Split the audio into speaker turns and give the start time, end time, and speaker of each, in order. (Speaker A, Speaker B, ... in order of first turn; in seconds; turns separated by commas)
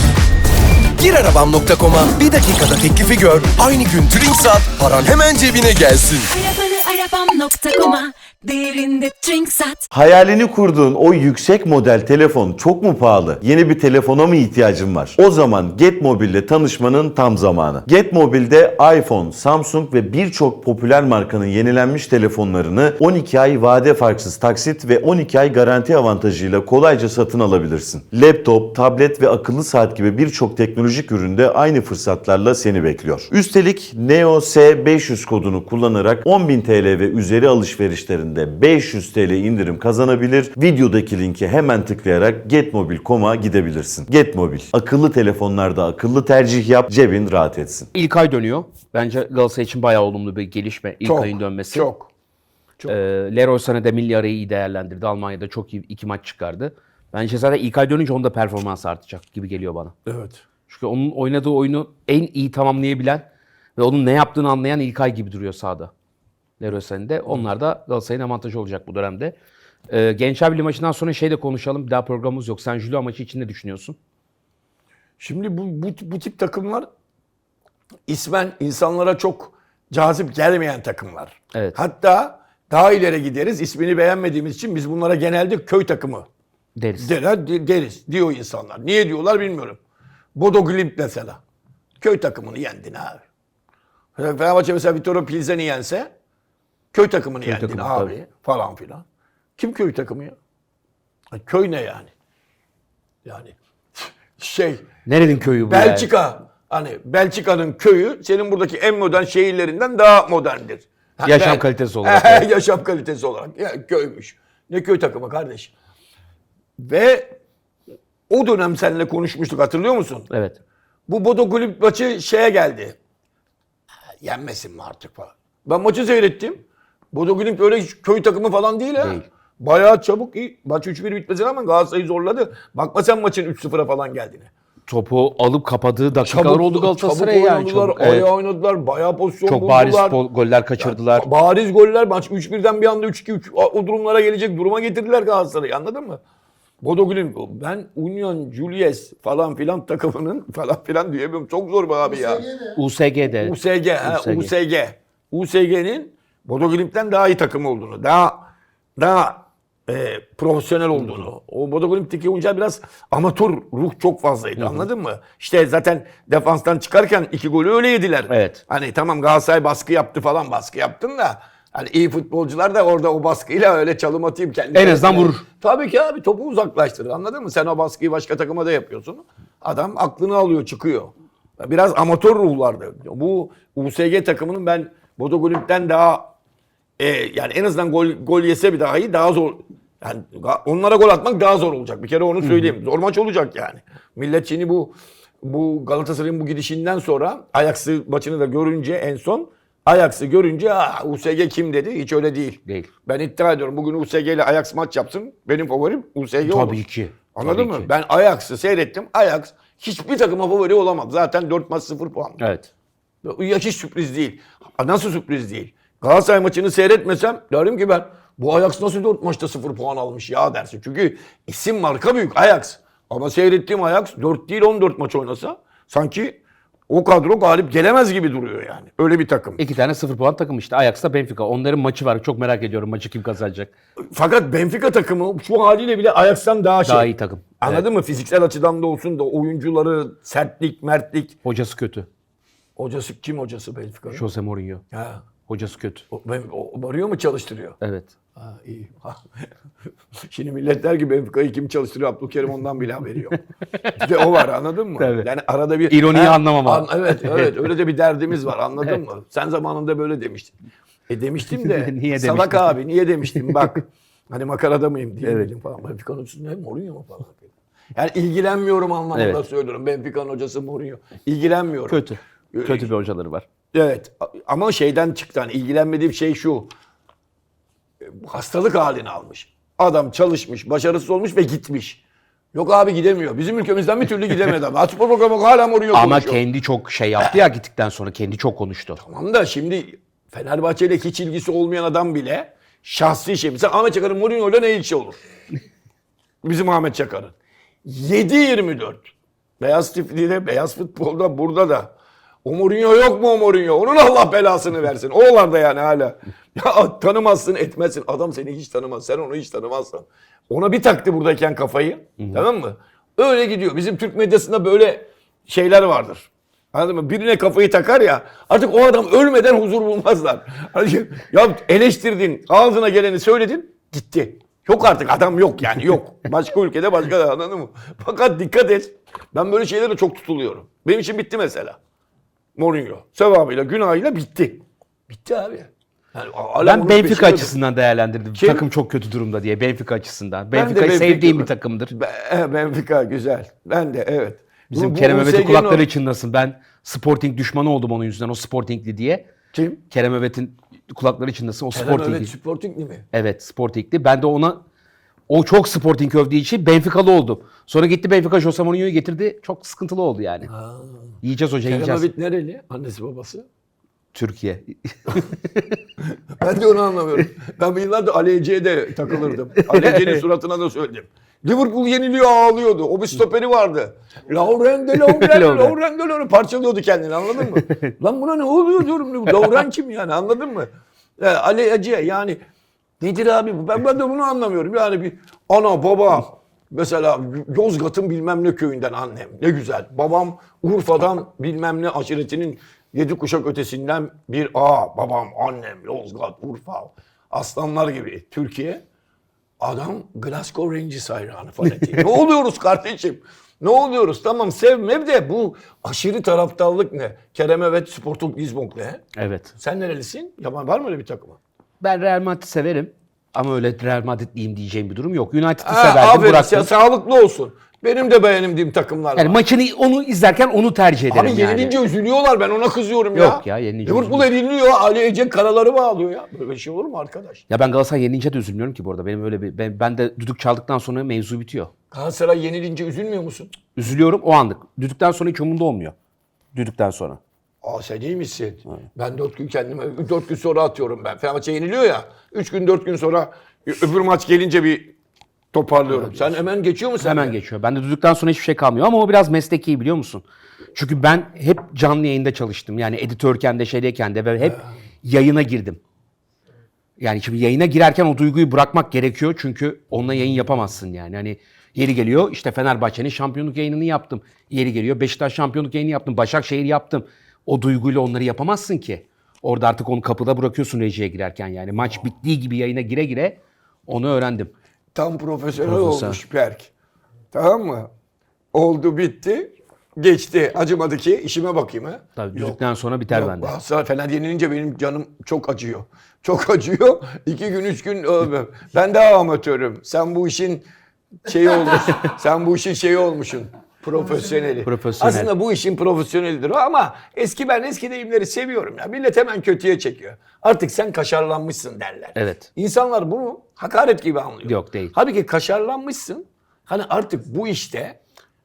Speaker A: 1.0-6.3, Speaker B: 6.3-9.8, Speaker C: 9.9-47.9, Speaker D: 47.9-51.9, Speaker E: 51.0-52.1, Speaker D: 52.9-59.9, Speaker E: 60.0-60.4, Speaker D: 60.7-65.9, Speaker D: 66.6-69.3, Speaker D: 69.9-74.0, Speaker E: 75.2-76.9, Speaker E: 78.1-86.2, Speaker D: 86.8-87.1, Speaker E: 87.0-89.8, Speaker E: 90.3-91.4, Speaker E: 92.0-93.2, Speaker E: 94.2-96.1, Speaker E: 96.9-99.0, Speaker D: 97.4-98.1, Speaker E: 99.6-100.3, Speaker E: 101.3-102.1, Speaker E: 103.2-104.9, Speaker D: 105.0-106.1, Speaker E: 105.7-115.7, Speaker D: 111.2-112.5, Speaker E: 116.8-117.3, Speaker E: 118.3-120.3, Speaker D: 120.3-120.6, Speaker E: 121.1-123.0, Speaker E: 124.2-134.5, Speaker D: 129.0-129.2, Speaker D: 134.8-138.3, Speaker E: 136.2-140.2, Speaker D: 139.4-141.3, Speaker E: 140.8-146.2, Speaker E: 146.8-152.5, Speaker D: 152.7-154.5, Speaker E: 153.4-186.3, Speaker D: 164.6-164.9, Speaker D: 168.3-168.6, Speaker D: 174.7-175.4, Speaker E: 187.0-206.8, Speaker D: 192.4-192.7, Speaker D: 206.4-207.9, Speaker E: 207.3-212.4, Speaker D: 212.4-212.7, Speaker E: 213.2-229.6, Speaker D: 229.6-233.7, Speaker E: 234.1-241.4, Speaker D: 236.8-237.8, Speaker D: 241.4-242.1, Speaker E: 242.8-244.2, Speaker D: 244.1-244.8, Speaker E: 244.9-245.3, Speaker D: 245.5-246.0, Speaker E: 246.1-247.8, Speaker D: 247.8-248.1, Speaker E: 248.4-249.5, Speaker E: 250.2-253.4, Speaker D: 253.7-254.2, Speaker E: 254.0-260.5, Speaker D: 255.0-255.2, Speaker D: 255.9-257.6, Speaker E: 261.1-272.9, Speaker D: 261.6-262.7, Speaker D: 263.3-263.6, Speaker D: 265.2-265.5, Speaker D: 269.1-269.4, Speaker D: 271.9-273.4, Speaker E: 273.7-276.7, Speaker E: 278.0-282.0, Speaker E: 282.5-286.4, Speaker D: 285.9-289.0, Speaker E: 289.0-295.2, Speaker E: 296.4-297.3, Speaker E: 297.8-299.1, Speaker E: 299.6-301.9, Speaker E: 302.4-331.8, Speaker D: 312.2-312.4, Speaker E: 332.6-337.6, Speaker D: 336.6-341.9, Speaker E: 338.3-338.6, Speaker E: 340.5-345.9, Speaker D: 344.7-349.2, Speaker E: 349.5-349.8, Speaker D: 349.9-352.3, Speaker E: 351.7-353.1, Speaker D: 353.1-354.6, Speaker D: 355.3-360.5, Speaker E: 360.5-361.1, Speaker D: 361.2-362.1, Speaker E: 361.7-363.4, Speaker D: 364.1-365.8, Speaker E: 366.3-382.4, Speaker D: 369.3-370.2, Speaker D: 374.9-375.7, Speaker D: 377.4-377.9, Speaker E: 383.0-398.8, Speaker E: 399.6-409.0, Speaker D: 409.2-409.5, Speaker E: 409.6-411.4, Speaker D: 411.8-416.7, Speaker E: 415.6-419.4, Speaker D: 419.1-421.8, Speaker E: 421.1-427.4, Speaker D: 423.1-424.3, Speaker D: 427.5-431.7, Speaker E: 431.9-433.6, Speaker D: 433.7-435.9, Speaker D: 436.5-437.2, Speaker E: 437.6-444.9, Speaker E: 445.5-447.4, Speaker D: 445.8-446.4, Speaker D: 447.0-455.8, Speaker D: 457.0-474.5, Speaker E: 474.9-476.7, Speaker D: 475.6-476.2, Speaker E: 477.3-477.9, Speaker E: 478.5-490.7, Speaker D: 482.1-483.5, Speaker E: 491.2-508.0, Speaker D: 494.6-495.3, Speaker D: 502.1-502.5, Speaker D: 504.4-504.9